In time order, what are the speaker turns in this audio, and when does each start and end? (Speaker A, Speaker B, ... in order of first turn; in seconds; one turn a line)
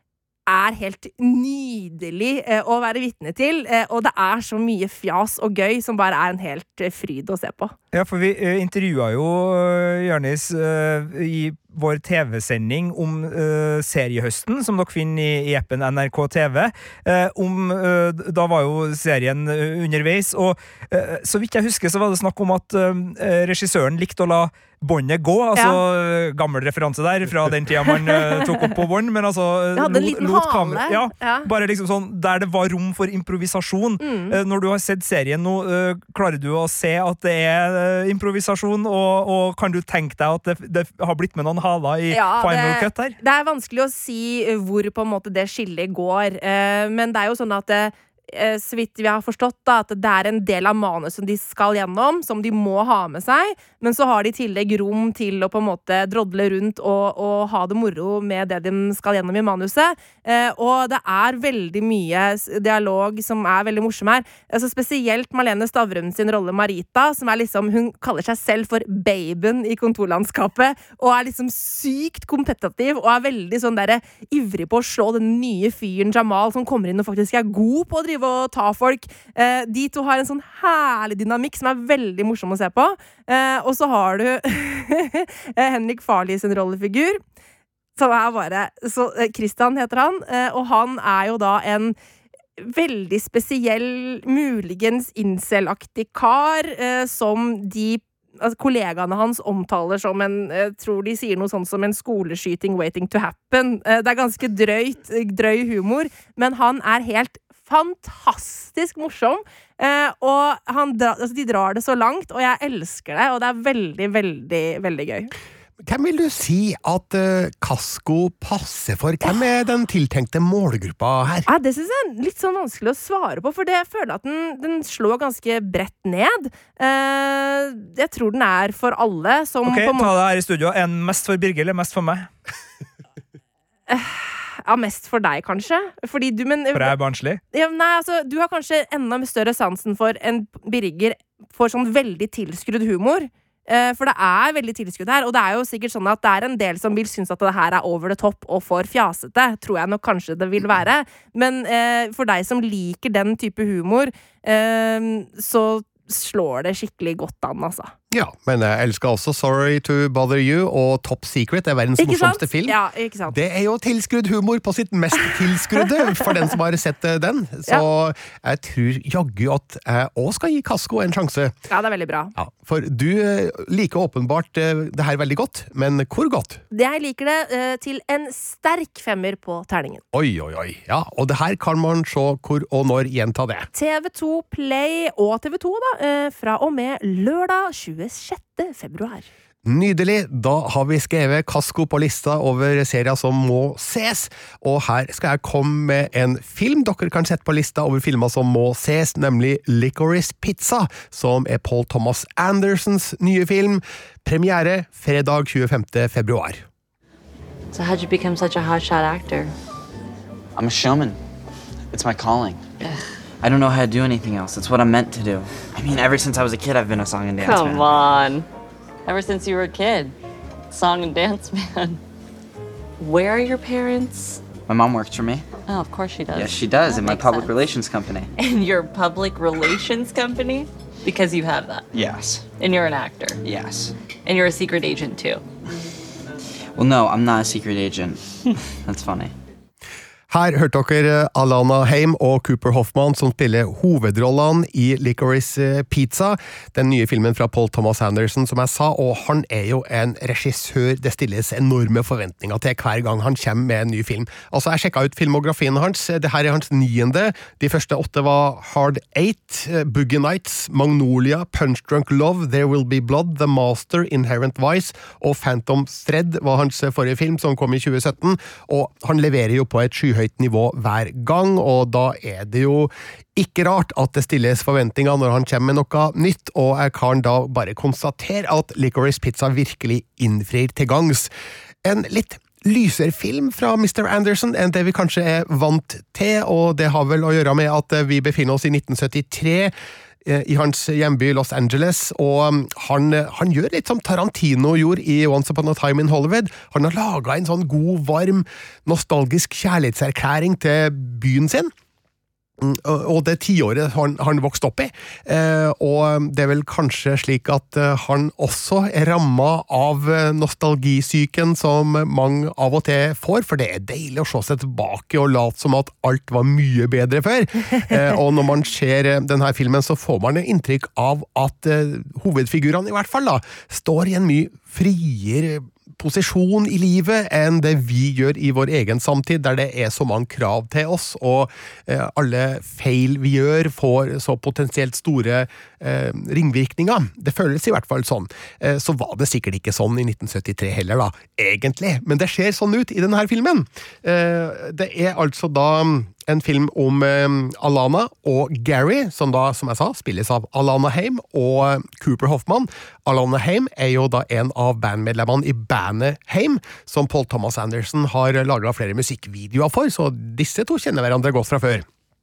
Speaker A: 0.5-7.7
Speaker B: 7.9-43.2
Speaker A: 29.8-31.5
Speaker A: 34.0-34.4
Speaker A: 42.1-87.2
Speaker A: 88.0-92.0
Speaker A: 92.6-115.3
Speaker C: 115.8-121.5
Speaker A: 121.5-130.1
Speaker B: 129.7-132.3
Speaker A: 133.9-136.9
Speaker B: 136.7-137.4
Speaker A: 137.5-157.9
Speaker C: 158.1-162.8
Speaker A: 162.0-163.4
Speaker C: 163.3-171.6
Speaker A: 171.7-172.3
Speaker C: 172.4-176.6
Speaker A: 176.7-180.0
Speaker C: 180.1-183.7
Speaker A: 183.7-189.3
Speaker C: 189.7-206.7
Speaker D: 207.7-209.5
Speaker E: 210.6-211.2
Speaker E: 211.9-212.6
Speaker E: 213.4-218.0
Speaker D: 217.4-218.5
Speaker D: 219.1-220.2
Speaker D: 220.7-222.0
Speaker D: 223.0-224.4
Speaker E: 224.7-225.5
Speaker D: 225.7-227.6
Speaker E: 226.3-228.3
Speaker D: 228.4-231.9
Speaker E: 231.9-232.5
Speaker D: 232.5-233.4
Speaker E: 233.4-233.9
Speaker D: 234.2-235.4
Speaker E: 236.8-238.2
Speaker E: 238.8-239.3
Speaker C: 240.3-281.3
Speaker C: 281.8-289.7
Speaker C: 290.2-301.7
Speaker C: 302.6-361.9